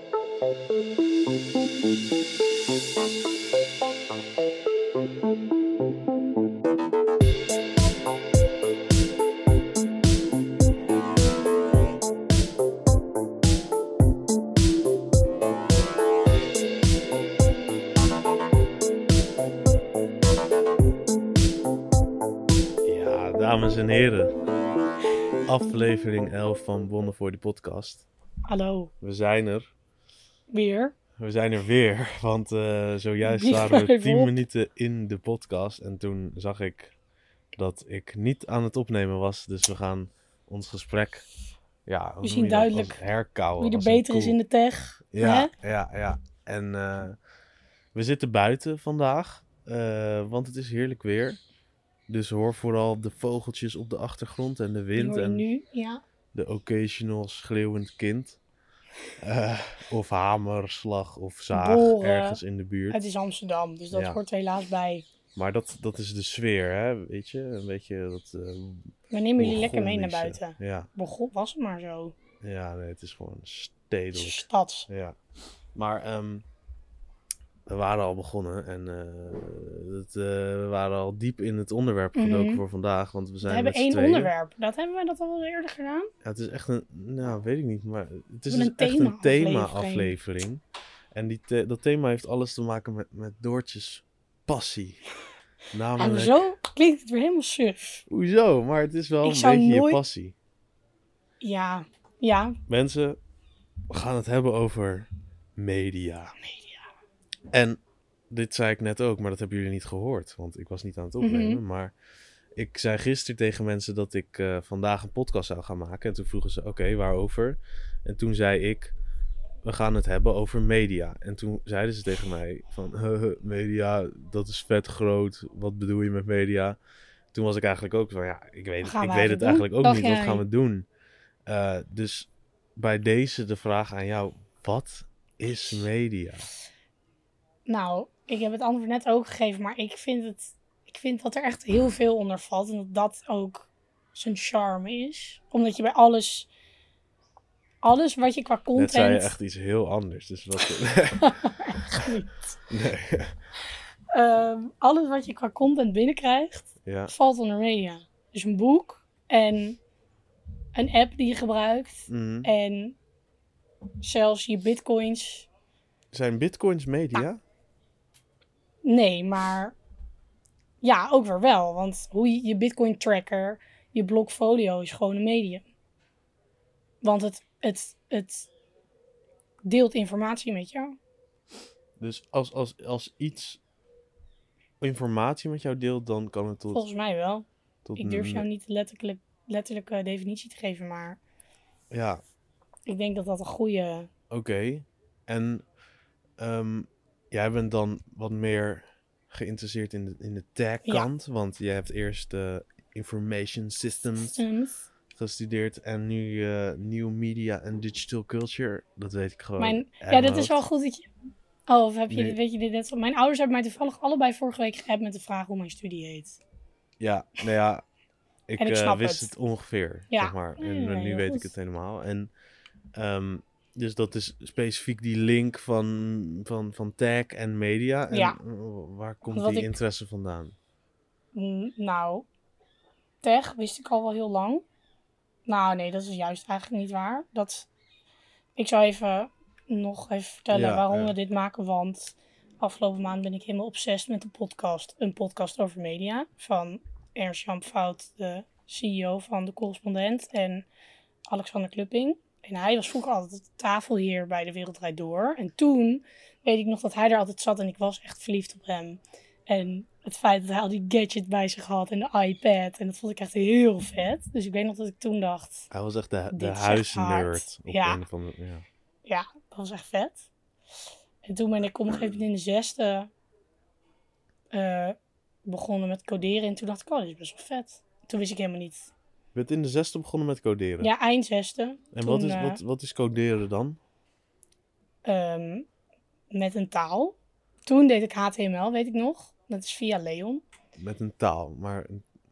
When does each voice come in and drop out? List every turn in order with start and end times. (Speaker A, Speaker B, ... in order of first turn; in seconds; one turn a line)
Speaker A: 0.2-1.4
Speaker A: 22.8-24.4
Speaker A: 25.5-28.1
Speaker B: 28.5-28.9
Speaker A: 29.0-29.7
Speaker B: 30.5-31.0
Speaker A: 31.2-36.9
Speaker B: 33.2-34.4
Speaker A: 37.6-41.3
Speaker A: 41.9-44.4
Speaker B: 42.2-43.0
Speaker B: 43.6-45.5
Speaker A: 45.1-47.2
Speaker A: 47.9-51.4
Speaker A: 52.1-55.5
Speaker B: 55.0-56.0
Speaker A: 56.3-58.4
Speaker A: 59.2-63.0
Speaker B: 61.5-65.0
Speaker A: 63.9-64.2
Speaker A: 65.3-70.9
Speaker B: 69.1-72.2
Speaker A: 72.4-75.2
Speaker B: 74.1-74.9
Speaker A: 75.8-76.5
Speaker A: 77.7-84.3
Speaker B: 82.2-82.6
Speaker B: 83.4-86.1
Speaker A: 86.2-90.6
Speaker B: 88.5-90.2
Speaker A: 91.1-95.0
Speaker A: 95.7-96.4
Speaker B: 96.0-98.0
Speaker A: 98.1-100.4
Speaker B: 99.2-100.0
Speaker B: 101.4-102.6
Speaker A: 102.7-103.2
Speaker A: 103.9-106.4
Speaker B: 106.4-106.8
Speaker A: 107.5-107.8
Speaker A: 108.3-111.9
Speaker B: 111.2-111.6
Speaker A: 112.6-118.9
Speaker A: 119.6-126.8
Speaker A: 127.3-130.9
Speaker B: 128.8-130.4
Speaker A: 131.5-136.5
Speaker B: 137.7-146.5
Speaker B: 147.8-149.3
Speaker A: 148.8-152.1
Speaker B: 151.2-152.6
Speaker A: 152.7-153.4
Speaker B: 154.1-159.8
Speaker A: 156.8-157.1
Speaker B: 160.8-163.0
Speaker A: 162.1-162.5
Speaker B: 164.0-165.5
Speaker A: 166.1-167.4
Speaker B: 168.8-169.8
Speaker B: 170.8-175.7
Speaker B: 177.0-178.5
Speaker B: 179.7-181.0
Speaker A: 182.0-183.6
Speaker A: 184.8-186.8
Speaker B: 186.7-191.2
Speaker A: 187.9-188.5
Speaker A: 191.9-192.2
Speaker B: 192.9-194.1
Speaker A: 194.3-195.6
Speaker A: 196.4-204.4
Speaker B: 200.8-201.1
Speaker B: 204.2-204.9
Speaker A: 205.1-210.6
Speaker B: 209.6-211.1
Speaker B: 211.7-216.4
Speaker A: 212.1-212.4
Speaker A: 217.0-217.8
Speaker A: 218.5-222.3
Speaker B: 218.6-219.3
Speaker B: 220.1-221.5
Speaker A: 222.9-230.6
Speaker B: 228.1-228.4
Speaker B: 229.3-229.7
Speaker B: 231.3-232.3
Speaker B: 233.2-234.7
Speaker B: 235.5-237.7
Speaker B: 238.6-250.7
Speaker A: 240.5-241.1
Speaker B: 251.3-265.7
Speaker A: 265.7-268.6
Speaker B: 266.3-268.0
Speaker B: 269.1-270.3
Speaker B: 271.2-273.1
Speaker B: 274.5-278.9
Speaker A: 279.3-280.9
Speaker B: 280.8-282.6
Speaker A: 281.9-283.8
Speaker B: 285.1-285.7
Speaker B: 286.3-287.1
Speaker B: 287.7-290.4
Speaker A: 290.8-292.1